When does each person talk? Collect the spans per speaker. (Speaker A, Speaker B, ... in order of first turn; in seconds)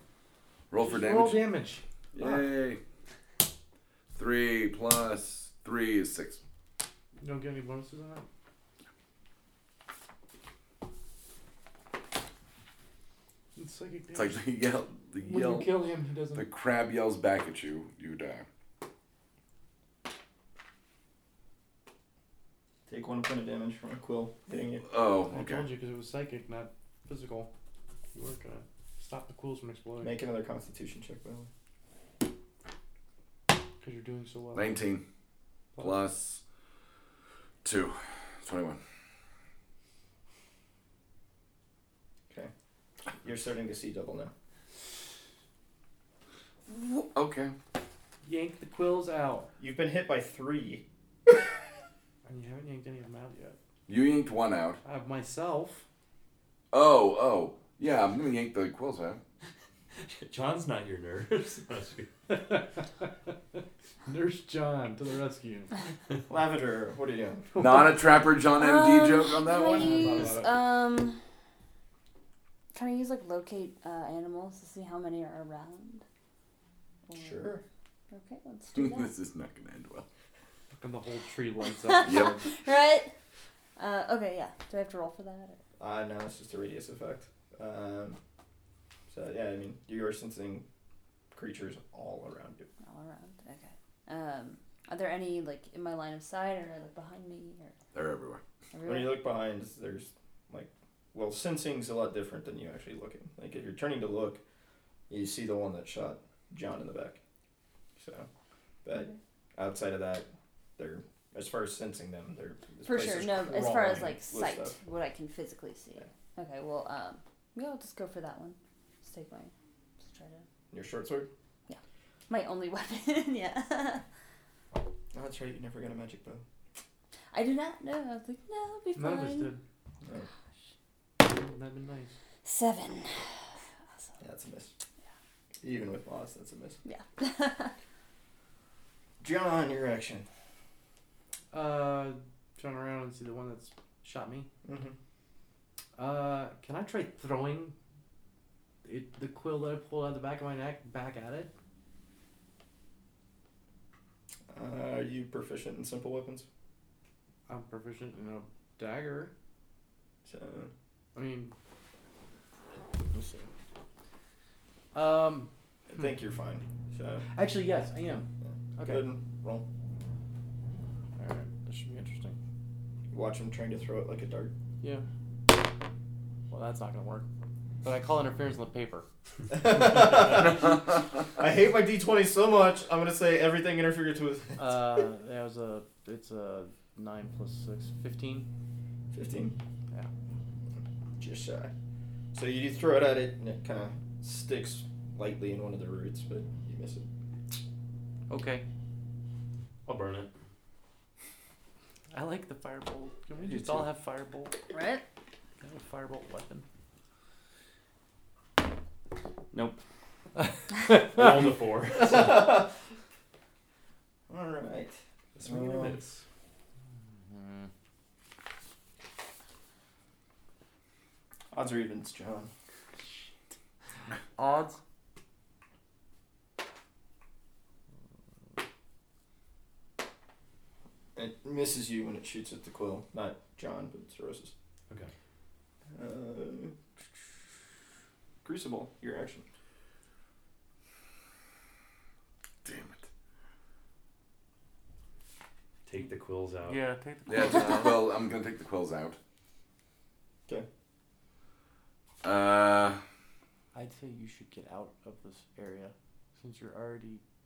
Speaker A: 0.7-1.4, 2.1-2.8, 4.1-6.4, 14.1-15.8, 16.3-18.4, 24.9-25.7, 34.5-35.0, 35.8-36.4, 37.6-38.8, 46.7-47.5, 53.9-54.8, 56.7-59.2, 67.5-70.4, 78.7-80.0, 82.0-82.4, 97.9-98.4, 242.6-243.1, 247.3-249.2, 252.2-253.0
Speaker B: 0.8-1.8, 7.2-8.2, 13.6-14.4, 15.2-16.5, 25.3-27.5, 28.1-30.2, 33.8-34.8, 48.2-49.5, 52.2-53.6, 54.8-55.8, 62.3-63.3, 64.0-65.7, 67.5-67.9, 80.8-82.4, 128.9-129.6, 131.2-132.2, 141.5-144.5, 146.0-147.7, 148.8-151.5, 157.5-159.3, 161.1-161.5, 163.1-163.5, 164.9-165.5, 167.3-169.1, 171.2-172.4, 176.5-177.2, 177.8-179.1, 184.6-188.5, 198.3-198.6, 202.1-204.6, 205.6-206.6, 210.3-211.4, 217.1-217.7, 224.4-224.8, 246.6-247.9, 253.7-257.2
Speaker C: 22.9-24.8, 30.0-31.5, 43.1-44.3, 49.6-50.8, 66.3-67.5, 69.7-70.5, 77.1-77.6, 85.8-88.2, 89.1-90.6, 91.3-92.7, 98.8-104.4, 105.1-107.2, 108.0-108.3, 108.8-114.8, 120.7-121.3, 125.1-126.4, 134.2-134.7, 135.6-136.8, 139.2-140.3, 144.6-144.9, 154.5-156.4, 160.2-160.7, 165.9-167.2, 168.4-169.6, 173.1-174.5, 179.5-184.8, 189.1-189.6, 191.2-191.7, 192.3-197.1, 211.9-212.7, 214.3-216.0, 221.5-222.5, 231.1-234.5, 235.9-236.8, 238.4-239.4
Speaker D: 60.0-62.1, 199.8-200.3, 203.4-203.9, 209.5-209.8, 210.9-212.5, 215.3-216.2, 245.8-246.8
Speaker E: 68.5-71.2, 72.7-76.0, 77.0-77.6, 78.1-79.1, 81.8-83.1, 83.8-85.6, 92.8-97.8, 98.7-99.2, 112.8-120.5, 121.7-124.0, 127.3-129.5, 132.4-133.2, 136.8-137.7, 204.7-205.0